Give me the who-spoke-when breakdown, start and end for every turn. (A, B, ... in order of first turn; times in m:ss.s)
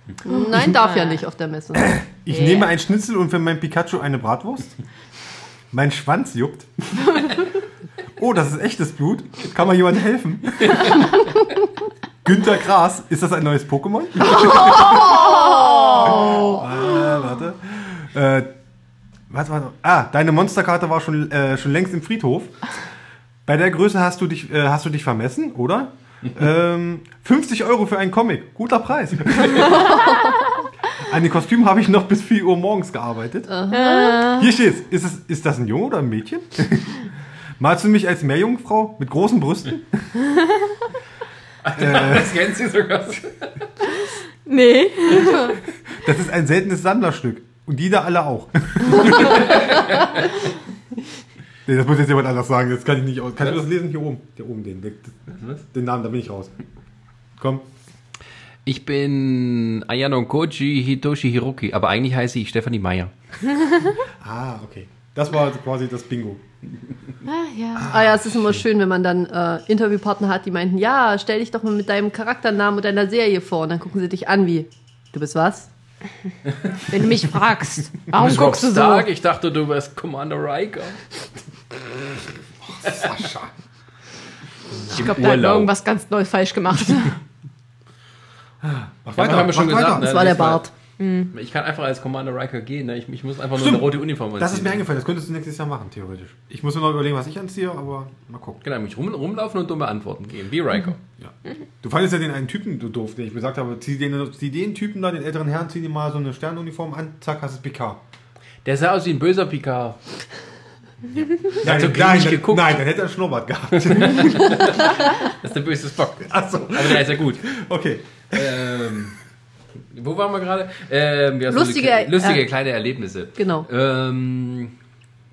0:00.2-0:02.0 A
0:00.3-0:01.2 B
0:01.8-0:04.8 C
0:02.3-0:02.7 B
0:05.7-0:07.4 C
0:08.2-0:11.3 C
0:12.2-0:18.5 C
0:14.7-0:16.6 A
0:14.8-0:16.2 B
0:19.3-0:22.6 C
0:23.5-0:30.1 C
0:30.9-0:33.5 C
0:33.5-0:34.2 A
0:33.7-0:34.5 B
0:34.3-0:37.1 C
0:37.6-0:40.1 C
0:41.6-0:43.7 D
0:41.8-0:42.4 C
0:44.5-0:45.6 B
0:45.9-0:49.7 C
0:49.0-0:50.3 D
0:51.7-0:56.5 C
0:57.4-0:57.7 C
0:58.6-1:03.1 D
1:04.2-1:06.4 C
1:07.2-1:07.9 B
1:07.8-1:08.6 C
1:07.9-1:15.7 A
1:16.9-1:19.1 B
1:18.1-1:21.1 D
1:22.7-1:23.5 C
1:24.9-1:25.7 D
1:24.9-1:27.2 B
1:28.6-1:30.3 C
1:29.2-1:30.7 D
1:29.9-1:30.7 A
1:31.0-1:31.3 B
1:31.3-1:34.8 D
1:33.6-1:38.6 C
1:38.6-1:41.0 D
1:41.2-1:48.0 C
1:48.6-1:50.0 D
1:51.1-1:52.8 D
1:51.6-1:54.9 C
1:53.8-1:57.5 D
1:56.2-1:59.0 C
1:58.3-1:59.2 D
1:59.9-2:04.7 D
2:01.5-2:02.4 A
2:03.4-2:03.7 A